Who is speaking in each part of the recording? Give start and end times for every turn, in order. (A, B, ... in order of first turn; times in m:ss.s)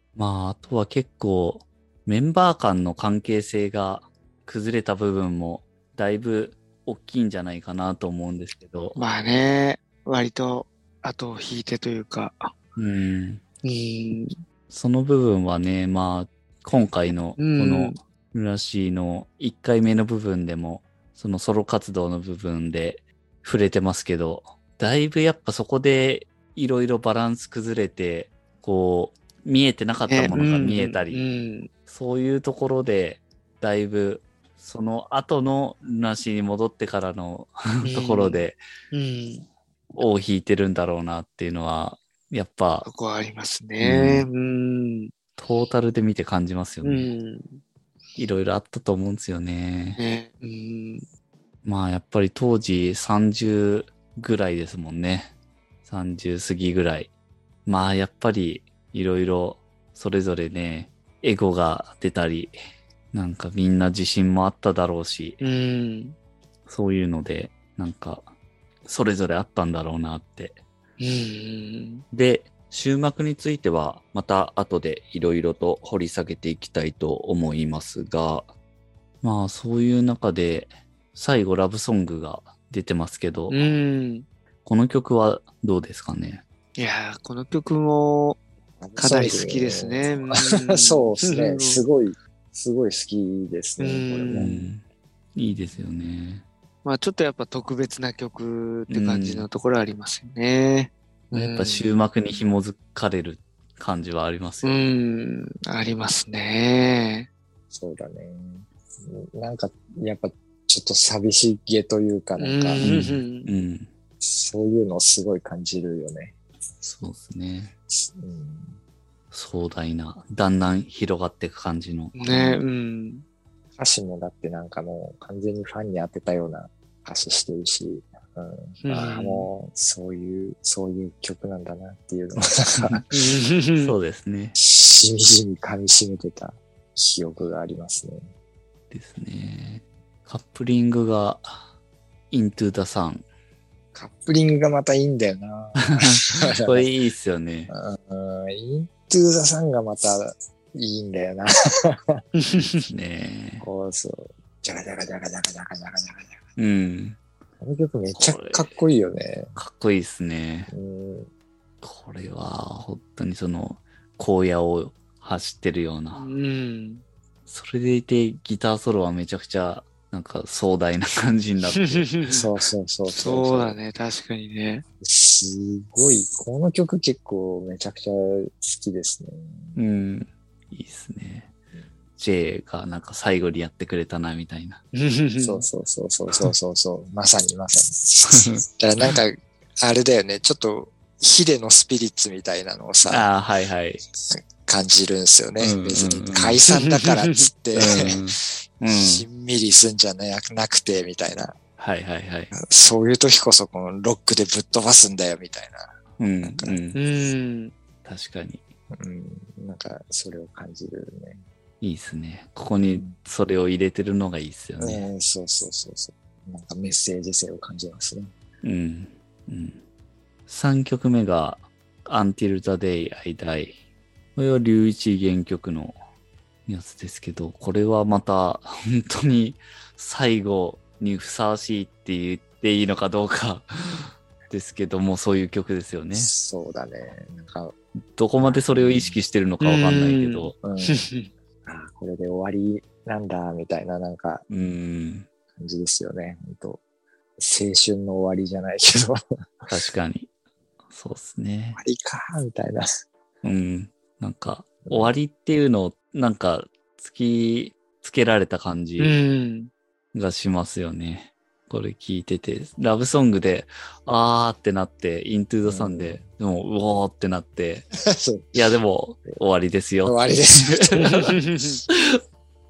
0:00.2-0:09.0 A
0:09.0-0:12.5 B
0:12.8-0:13.4 A
0:13.6-0:14.4 B
0:14.7-0:31.2 A
0:17.4-0:18.0 B
0:30.1-0:31.7 B
0:31.9-0:38.6 A
0:37.8-0:39.5 B
0:40.0-0:42.9 A
0:42.8-0:45.1 B
0:43.8-0:44.3 A
0:45.4-0:47.1 A
0:46.8-0:47.6 B
0:48.2-0:50.0 A
0:50.0-0:51.1 B
0:51.6-0:55.3 A
0:55.8-0:57.1 A
0:57.6-1:02.6 A
1:03.1-1:05.4 A
1:05.4-1:06.2 B
1:06.7-1:08.3 A
1:08.8-1:10.6 A
1:11.0-1:12.0 B
1:12.1-1:18.5 A
1:19.2-1:23.6 A
1:23.5-1:24.3 B
1:24.6-1:26.4 A
1:26.8-1:28.4 B
1:28.8-1:34.6 C
1:29.0-1:31.8 B
1:33.8-1:34.6 B
1:34.4-1:34.8 A
1:35.4-1:36.5 A
1:36.8-1:41.9 B
1:38.9-1:39.5 A
1:41.3-1:44.8 A
1:44.6-1:47.3 B
1:47.7-1:52.9 C
1:52.4-1:53.5 B
1:52.8-1:53.9 A
1:54.2-1:56.4 C
1:56.8-1:57.7 A
1:57.9-1:58.8 C
1:59.3-2:02.2 A
2:02.2-2:03.2 B
2:02.2-2:02.6 C
2:03.8-2:13.0 C
2:08.8-2:09.5 B
2:12.8-2:13.1 A
2:13.1-2:14.0 B
2:13.8-2:14.6 A
2:14.6-2:18.3 C
2:18.9-2:21.6 A
2:22.3-2:23.2 A
2:24.0-2:26.9 C
2:25.8-2:27.7 A
2:27.7-2:32.2 C
2:32.4-2:32.9 B
2:32.9-2:33.6 A
2:33.6-2:36.4 C
2:36.6-2:37.2 A
2:37.6-2:39.6 C
2:38.2-2:38.8 A
2:39.6-2:40.7 A
2:40.7-2:41.3 C
2:41.8-2:46.3 A
2:46.1-2:47.0 B
2:47.5-2:52.1 A
2:51.7-2:52.4 B
2:52.3-2:53.8 C
2:53.1-2:54.8 B
2:55.0-2:59.8 C
2:59.8-3:01.5 A
3:02.2-3:04.8 A
3:04.9-3:05.7 B
3:05.4-3:13.3 C
3:08.3-3:08.6 A
3:13.1-3:14.0 A
3:14.3-3:21.6 C
3:15.6-3:16.6 A
3:16.7-3:17.4 B
3:17.7-3:19.3 A
3:21.8-3:22.5 A
3:22.5-3:25.9 C
3:26.2-3:27.0 A
3:26.4-3:26.8 C
3:27.0-3:27.7 B
3:28.0-3:28.7 A
3:28.9-3:31.4 C
3:31.8-3:35.0 A
3:32.9-3:33.2 C
3:34.8-3:38.3 C
3:38.6-3:39.8 A
3:40.5-3:43.8 A
3:44.4-3:46.0 A
3:46.7-3:56.3 A
3:56.1-3:57.8 C
3:58.2-4:00.6 A
3:58.4-3:59.2 C
3:59.6-4:01.3 B
4:00.6-4:01.0 C
4:01.6-4:04.4 C
4:04.5-4:05.3 A
4:05.6-4:06.8 C
4:07.4-4:09.7 C
4:09.7-4:10.3 A
4:10.9-4:11.8 A
4:11.8-4:12.9 C
4:13.4-4:19.2 A
4:14.8-4:15.1 C
4:19.0-4:19.7 B
4:20.1-4:27.9 A
4:25.6-4:26.2 C
4:28.1-4:28.6 C
4:28.5-4:31.2 A
4:30.0-4:31.2 C
4:31.0-4:31.8 B
4:31.9-4:32.2 A